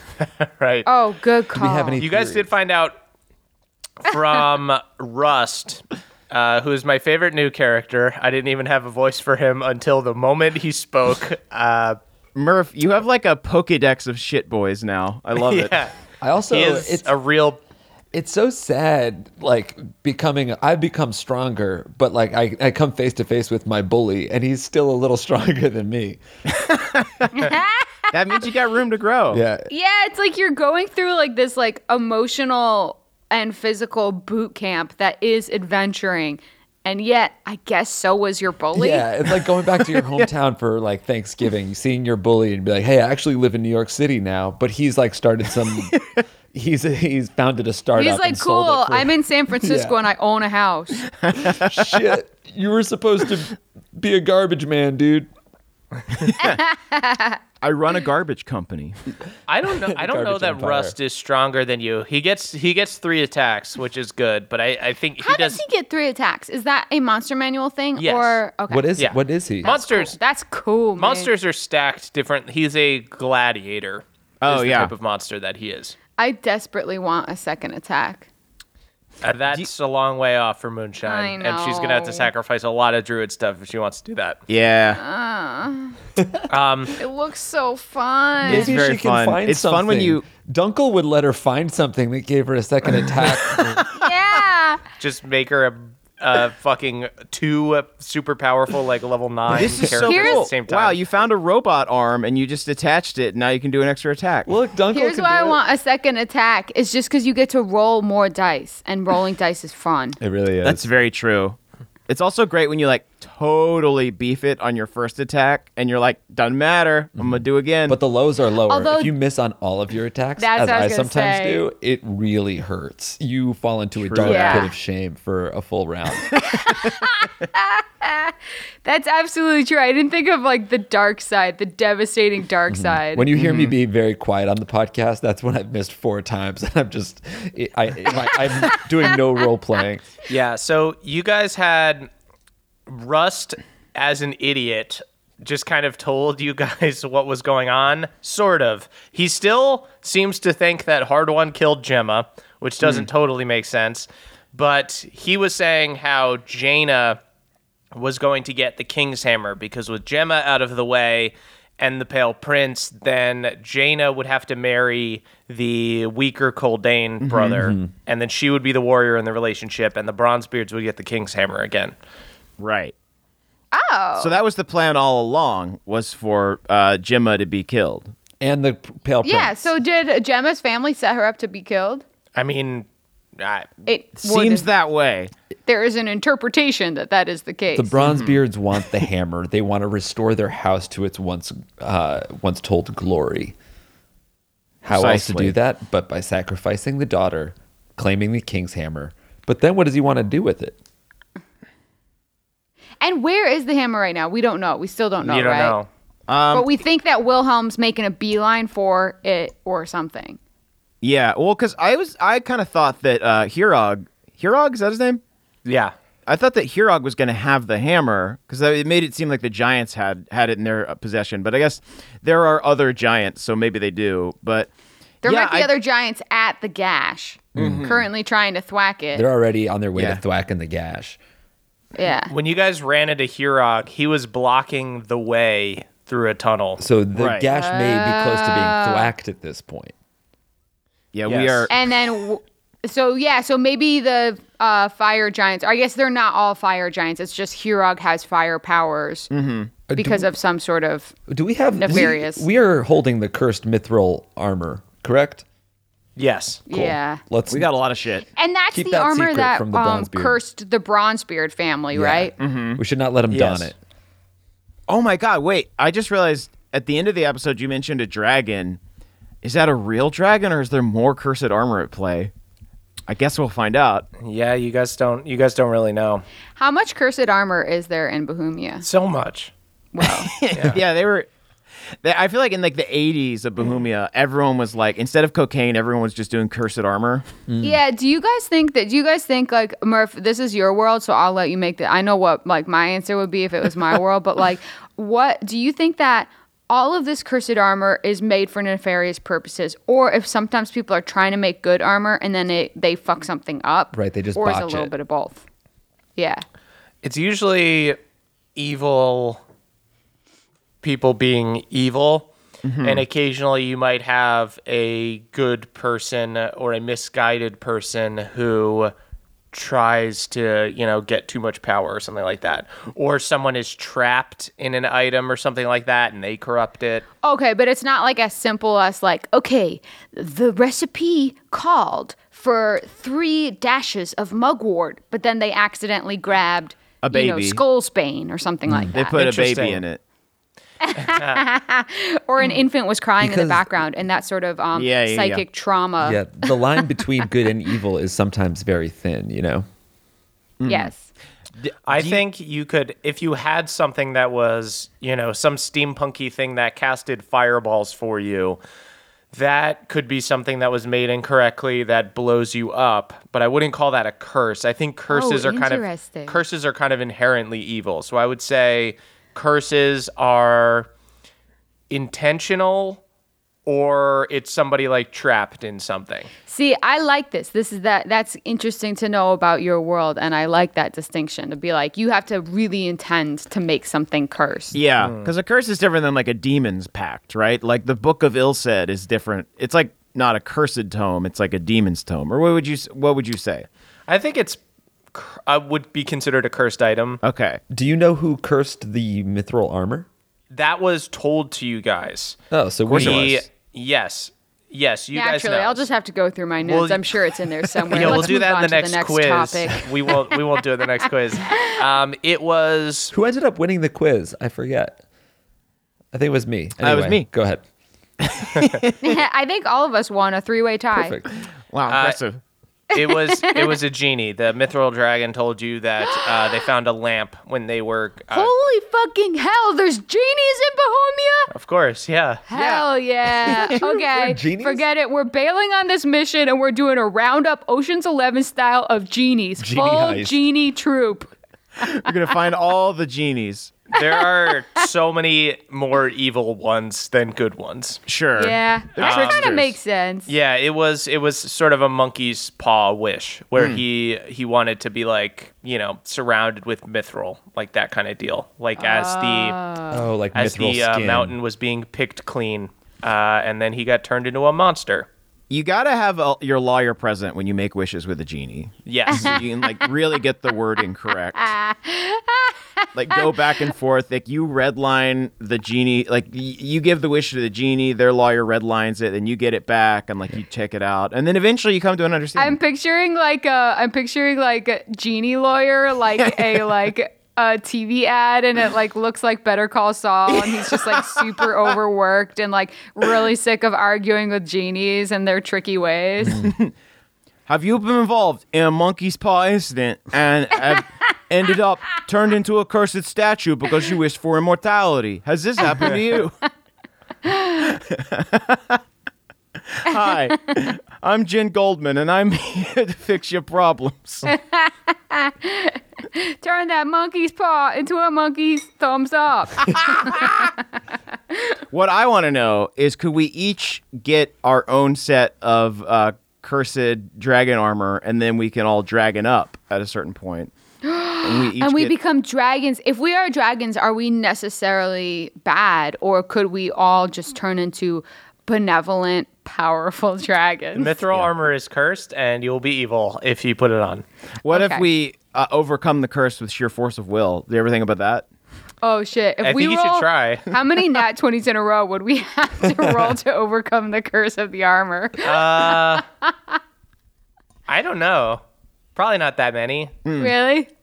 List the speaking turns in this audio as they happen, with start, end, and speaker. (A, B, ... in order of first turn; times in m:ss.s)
0:00.4-0:00.9 A
0:00.8-0:02.0 B
0:01.6-0:02.5 C
0:02.0-0:02.9 A
0:04.0-0:12.0 A
0:12.3-0:15.8 D
0:15.3-0:15.9 A
0:16.2-0:17.1 C
0:16.5-0:17.6 A
0:18.1-0:26.2 C
0:26.6-0:27.4 D
0:27.3-0:27.9 B
0:28.1-0:29.4 D
0:29.3-0:29.7 C
0:29.7-0:39.1 B
0:38.7-0:50.0 C
0:48.0-0:51.1 B
0:51.2-0:52.0 D
0:51.3-0:55.3 C
0:56.2-0:56.6 D
0:56.4-0:57.4 B
0:57.6-0:58.9 D
0:59.5-1:05.6 A
0:59.8-1:01.0 C
1:05.2-1:09.0 B
1:08.0-1:08.4 A
1:08.7-1:09.7 C
1:09.0-1:10.2 A
1:09.6-1:11.3 B
1:11.0-1:16.0 A
1:14.4-1:14.9 D
1:16.2-1:18.3 B
1:19.2-1:24.4 A
1:21.0-1:22.3 B
1:24.5-1:25.0 D
1:25.0-1:26.0 B
1:26.5-1:26.9 A
1:27.0-1:28.7 B
1:28.5-1:30.2 D
1:28.5-1:33.8 C
1:32.9-1:34.1 D
1:33.9-1:34.8 B
1:35.0-1:41.0 A
1:39.5-1:44.5 D
1:40.0-1:40.5 B
1:44.4-1:45.6 C
1:44.9-1:50.2 B
1:50.2-1:50.9 C
1:50.6-1:58.0 D
1:57.2-2:06.5 C
1:58.7-1:59.1 B
2:00.4-2:01.6 B
2:04.0-2:04.7 D
2:04.2-2:04.7 B
2:06.4-2:13.3 B
2:12.7-2:20.1 C
2:13.3-2:13.7 D
2:20.3-2:22.1 A
2:22.9-2:37.2 A
2:32.8-2:33.1 D
2:37.9-2:51.9 A
2:47.2-2:47.6 D
2:47.6-2:47.9 C
2:52.6-2:52.9 D
2:53.7-2:54.4 B
2:54.2-2:58.1 D
2:58.4-2:59.6 C
2:59.2-3:02.0 B
3:02.3-3:03.7 A
3:03.8-3:04.7 B
3:04.2-3:05.3 D
3:05.6-3:08.1 B
3:07.7-3:13.5 C
3:08.0-3:08.4 D
3:14.8-3:20.8 C
3:14.9-3:15.5 D
3:23.0-3:25.8 B
3:25.2-3:25.9 A
3:26.3-3:26.7 D
3:26.5-3:30.4 B
3:31.0-3:35.2 D
3:35.6-3:35.9 A
3:36.2-3:44.7 D
3:45.2-3:49.2 B
3:45.2-3:45.7 D
3:47.6-3:47.8 C
3:47.6-3:48.1 D
3:49.1-3:51.2 C
3:49.9-3:50.2 D
3:52.0-3:52.3 B
3:52.3-3:56.8 A
3:56.8-3:59.9 C
3:57.1-3:57.5 D
3:57.5-3:59.1 B
4:01.1-4:01.7 D
4:01.2-4:01.7 A
4:01.7-4:09.3 B
4:09.3-4:09.7 D
4:09.9-4:10.3 C
4:09.9-4:11.1 B
4:11.3-4:15.4 C
4:11.7-4:12.4 B
4:16.2-4:16.6 A
4:16.7-4:17.2 B
4:16.7-4:17.7 C
4:17.5-4:18.3 D
4:18.4-4:22.3 B
4:18.7-4:20.4 C
4:21.9-4:23.8 C
4:22.4-4:22.8 D
4:23.3-4:23.7 A
4:24.9-4:28.8 D
4:29.4-4:32.3 D
4:33.1-4:34.1 D
4:34.2-4:36.2 A
4:36.6-4:38.8 B
4:38.8-4:39.5 A
4:39.9-4:40.3 B
4:40.0-4:41.3 D
4:40.5-4:40.8 A
4:42.0-4:47.2 D
4:47.5-4:47.8 C
4:47.6-5:05.4 B
5:03.9-5:04.9 C
5:06.2-5:06.4 B
5:07.0-5:08.0 A
5:08.6-5:09.4 A
5:10.8-5:12.3 A
5:12.6-5:13.0 D
5:12.8-5:18.9 A
5:19.5-5:27.0 A
5:27.2-5:39.2 B
5:37.0-5:37.6 D
5:38.7-5:38.9 C
5:38.9-5:40.0 D
5:39.1-5:39.8 A
5:40.8-5:47.0 B
5:41.0-5:41.4 A
5:43.2-5:43.7 C
5:44.7-5:45.4 D
5:46.0-5:49.6 C
5:50.6-5:50.9 D
5:50.7-5:51.1 B
5:51.6-5:52.2 D
5:51.9-5:58.6 A
5:59.3-6:10.9 A
6:05.1-6:06.4 B
6:11.9-6:13.0 A
6:13.6-6:16.3 A
6:16.5-6:24.8 B
6:24.7-6:33.7 D
6:25.0-6:25.3 A
6:34.1-6:34.6 A
6:35.1-6:37.2 A
6:37.2-6:37.6 D
6:37.7-6:40.1 C
6:40.5-6:42.4 A
6:42.5-6:43.4 C
6:42.9-6:43.4 D
6:42.9-6:45.9 A
6:45.1-6:50.2 B
6:46.6-6:47.1 A
6:47.9-6:53.1 A
6:51.4-6:51.8 B
6:53.1-6:55.0 C
6:56.1-6:57.6 C
6:56.8-6:57.3 D
6:58.2-6:59.2 D
6:59.0-7:01.2 B
7:00.9-7:01.3 C
7:01.7-7:02.4 D
7:01.9-7:02.2 A
7:02.9-7:03.8 B
7:02.9-7:08.5 A
7:06.0-7:06.6 B
7:08.3-7:11.5 B
7:11.5-7:12.4 A
7:12.5-7:21.3 B
7:12.5-7:12.9 D
7:13.4-7:14.8 C
7:13.5-7:13.7 D
7:19.6-7:20.4 C
7:21.8-7:23.8 D
7:23.9-7:28.0 A
7:28.1-7:29.8 D
7:28.4-7:30.3 B
7:29.0-7:29.5 A
7:30.3-7:39.6 A
7:33.6-7:33.8 D
7:38.8-7:40.0 B
7:39.9-7:41.3 C
7:40.3-7:45.1 A
7:45.5-7:51.5 D
7:48.8-7:49.4 A
7:51.4-7:53.4 B
7:52.9-8:02.6 D
8:02.4-8:16.5 B
8:10.3-8:11.4 D
8:16.2-8:16.5 C
8:16.3-8:16.7 D
8:17.5-8:26.3 D
8:27.2-8:27.8 B
8:27.7-8:28.8 D
8:29.7-8:34.3 D
8:34.2-8:40.5 B
8:41.7-8:50.5 D
8:50.8-9:01.0 B
8:51.2-8:51.9 D
9:00.7-9:04.0 A
9:04.4-9:08.2 D
9:04.5-9:04.8 B
9:08.8-9:16.6 B
9:09.4-9:10.5 A
9:15.2-9:16.0 A
9:17.7-9:18.4 A
9:19.0-9:19.9 A
9:20.0-9:20.3 D
9:20.2-9:20.7 B